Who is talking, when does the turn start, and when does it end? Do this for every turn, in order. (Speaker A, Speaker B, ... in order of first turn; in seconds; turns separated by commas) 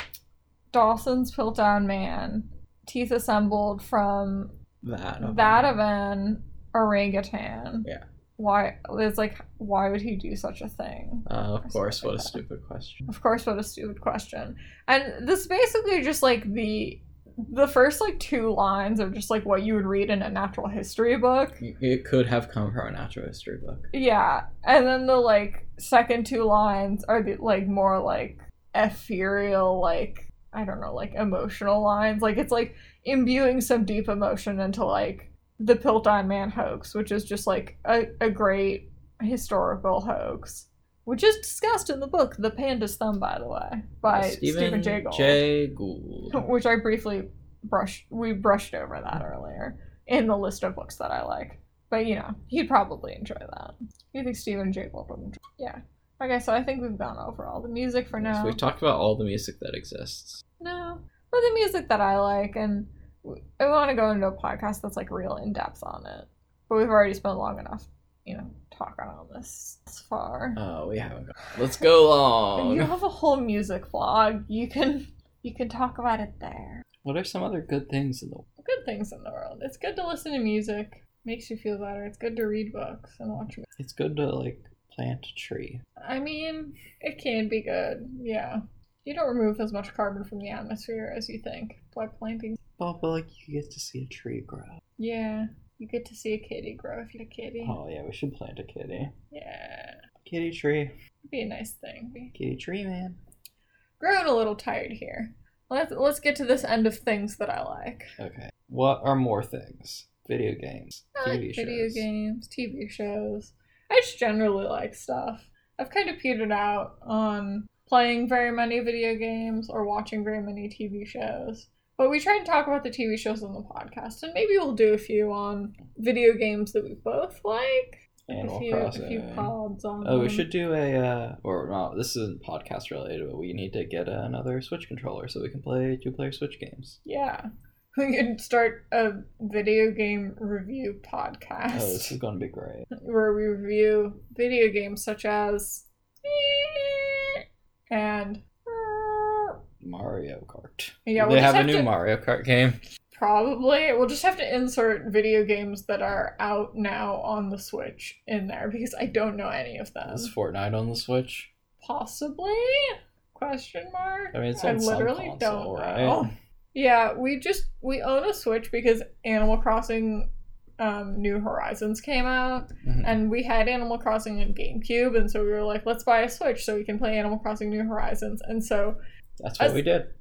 Speaker A: 0.7-4.5, Speaker B: 4.8-5.7, Speaker A: 5.2-12.4, Speaker B: 11.3-13.1, Speaker A: 13.1-21.6, Speaker B: 21.6-23.9, Speaker A: 23.9-45.5, Speaker B: 44.1-46.4, Speaker A: 46.3-58.6, Speaker B: 58.1-60.4, Speaker A: 60.6-70.6, Speaker B: 70.6-72.9, Speaker A: 72.6-76.8, Speaker B: 77.0-78.5, Speaker A: 78.6-83.6, Speaker B: 83.8-85.8, Speaker A: 86.0-92.6, Speaker B: 92.8-94.8, Speaker A: 95.0-97.8, Speaker B: 97.6-99.1, Speaker A: 99.3-100.0, Speaker B: 100.3-100.9, Speaker A: 101.3-102.3, Speaker B: 102.3-103.2, Speaker A: 104.0-108.2, Speaker B: 108.2-112.1, Speaker A: 111.2-130.5, Speaker B: 128.3-137.0, Speaker A: 137.1-142.1, Speaker B: 141.7-142.9, Speaker A: 142.9-147.4, Speaker A: 147.9-149.6, Speaker B: 149.8-152.8, Speaker A: 151.1-151.9, Speaker A: 153.1-160.3, Speaker B: 160.1-161.5, Speaker A: 161.8-179.0, Speaker B: 164.3-166.3, Speaker B: 172.8-173.2, Speaker B: 179.4-180.1